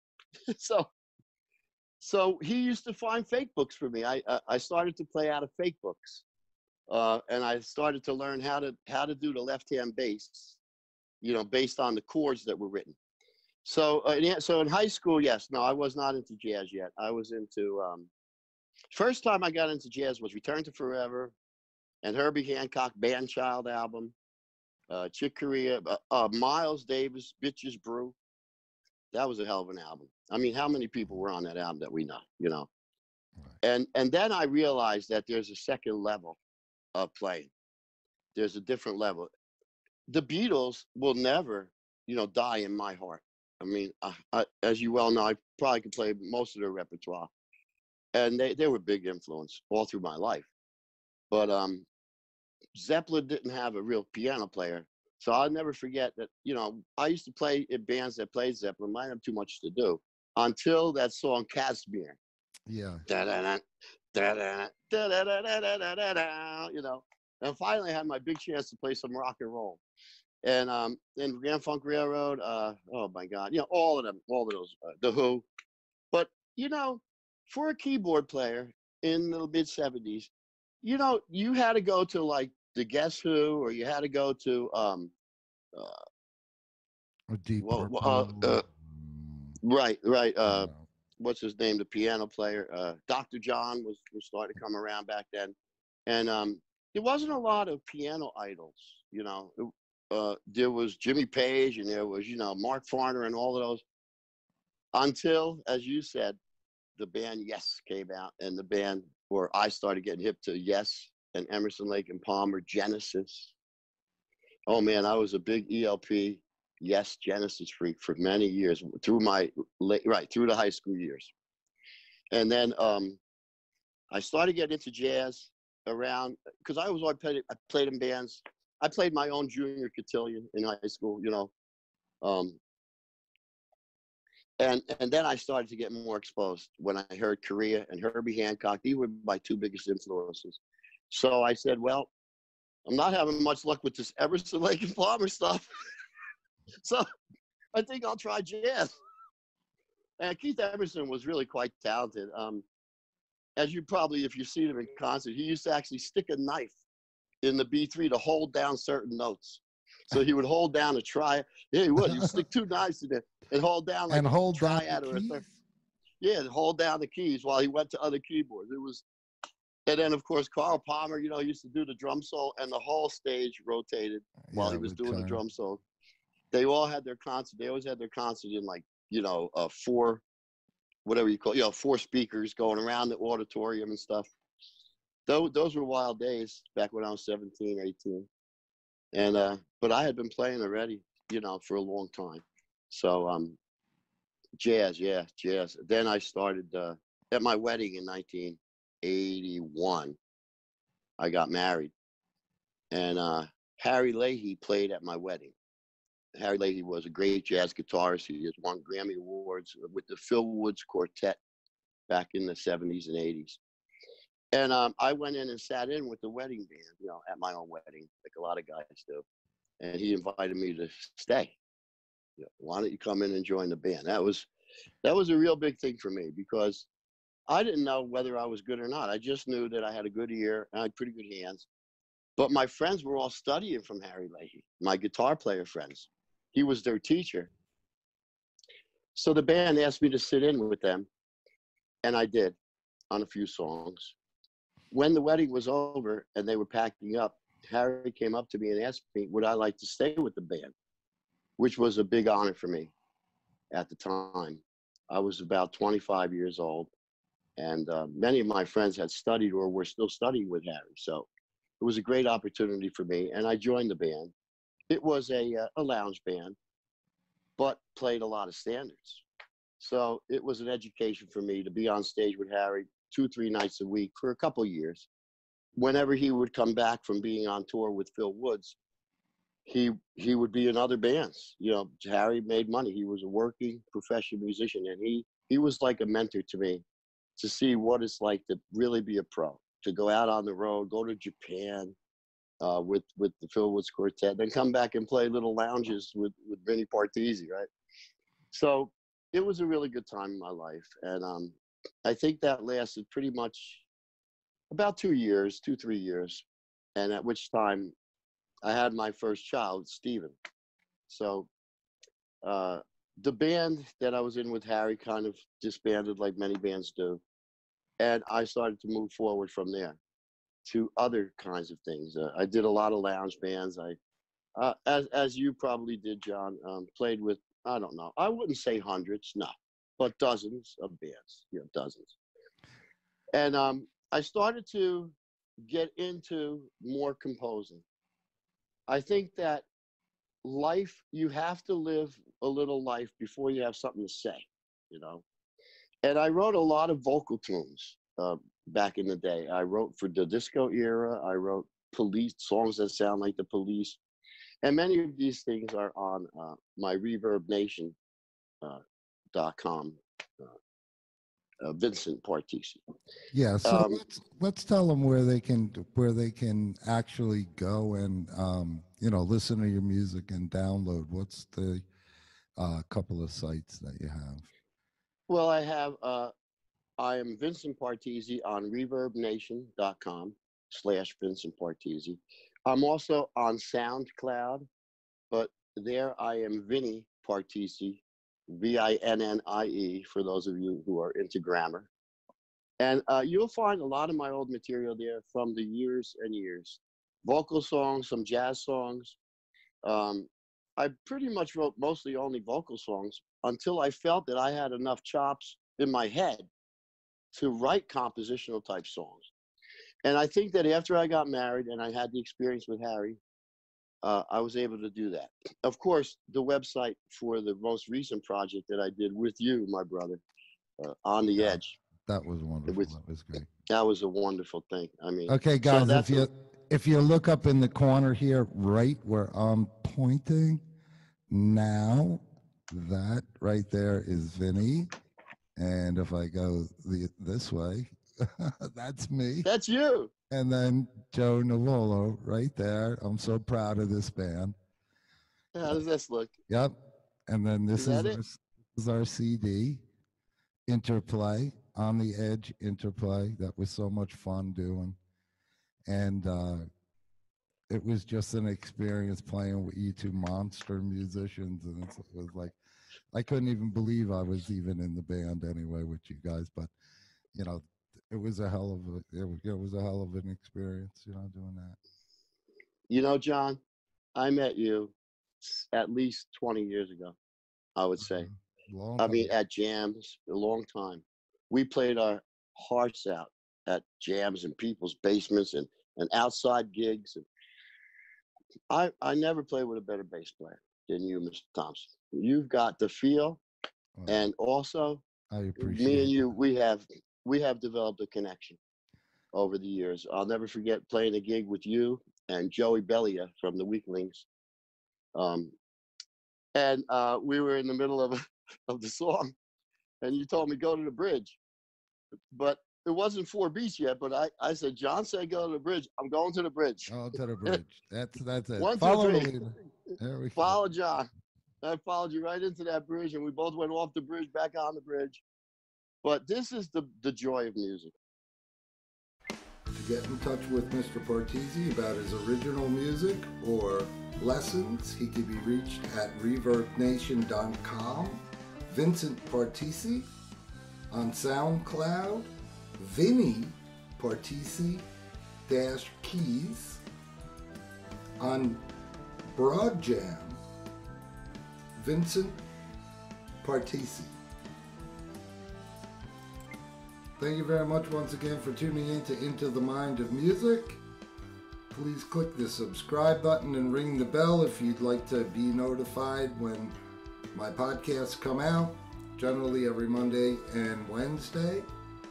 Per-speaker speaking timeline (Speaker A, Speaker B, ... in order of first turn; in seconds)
Speaker A: 0.5-0.9, 2.0-6.2, 6.9-10.6, 11.2-12.9, 13.6-18.1, 18.9-21.3, 22.0-24.1, 24.9-28.1, 29.1-32.7, 33.6-36.4, 36.9-37.5, 38.3-39.3, 40.1-47.3, 48.1-50.5, 51.3-51.9, 52.7-62.2, 63.1-69.8, 70.4-75.5, 76.1-80.3, 80.8-85.1, 85.7-86.0, 87.6-88.6, 89.6-95.5, 96.1-103.8, 104.9-106.4, 107.0-113.5, 114.7-121.3, 122.3-123.2, 124.1-131.5, 132.2-132.6, 134.6-142.1, 142.8-145.7, 147.7-149.0, 150.2-152.6, 153.6-156.8, 157.4-165.4, 166.2-169.0, 169.9-175.8, 176.5-180.2, 181.0-184.3, 185.3-188.3, 189.1-193.6, 194.6-200.2, 201.2-201.9, 202.9-205.5, 206.3-211.4, 212.1-213.6, 214.5-219.2, 219.8-221.6, 222.4-224.5, 225.0-226.9, 227.5-231.7, 232.4-237.5, 239.1-241.1, 242.0-242.6, 243.1-244.1, 244.9-250.7, 251.6-252.9, 253.7-256.9, 257.6-261.3, 261.8-264.3, 264.9-266.6, 267.6-269.2, 269.8-275.1, 275.8-278.8, 279.6-286.8, 287.4-291.9, 292.6-297.7, 298.5-303.8, 304.7-306.4, 306.9-307.9, 308.6-310.3, 311.1-311.5, 312.4-317.2, 318.0-320.0, 320.6-324.0, 324.6-332.2, 333.3-337.8, 338.9-339.7, 340.4-345.2, 346.0-354.0, 354.6-357.9, 359.3-360.5, 361.6-362.8, 363.6-364.0, 375.3-376.3, 377.0-384.7, 385.3-391.9, 392.8-399.2, 399.8-406.5, 407.3-409.3, 410.0-413.2, 414.0-420.2, 420.8-421.8, 423.4-426.3, 439.4-440.1, 445.5-446.3, 447.8-448.2, 472.9-473.6, 474.1-477.2, 477.8-478.3, 479.0-487.2, 488.7-493.4, 494.1-495.0, 495.6-498.6, 499.3-504.2, 505.1-505.5, 506.5-509.3, 510.0-511.4, 512.3-516.9, 518.6-519.3, 520.4-521.1, 521.6-525.2, 526.0-527.9
Speaker B: 62.7-63.0, 87.3-89.6, 90.4-90.9, 162.1-162.4, 164.1-165.6, 174.4-175.4, 363.3-371.9, 372.6-374.5, 421.4-423.5, 425.3-430.6, 431.3-434.9, 435.6-439.5, 440.3-444.5, 446.5-449.8, 450.7-455.0, 455.9-456.6, 457.7-462.6, 463.1-466.7, 467.3-471.8, 478.0-479.3, 494.0-494.2, 495.3-496.3, 516.9-520.6, 529.7-540.1, 540.9-544.9, 545.5-546.8, 548.2-548.6, 549.3-550.4, 551.8-552.4, 553.4-554.1, 557.2-560.8, 561.7-566.7, 567.3-571.7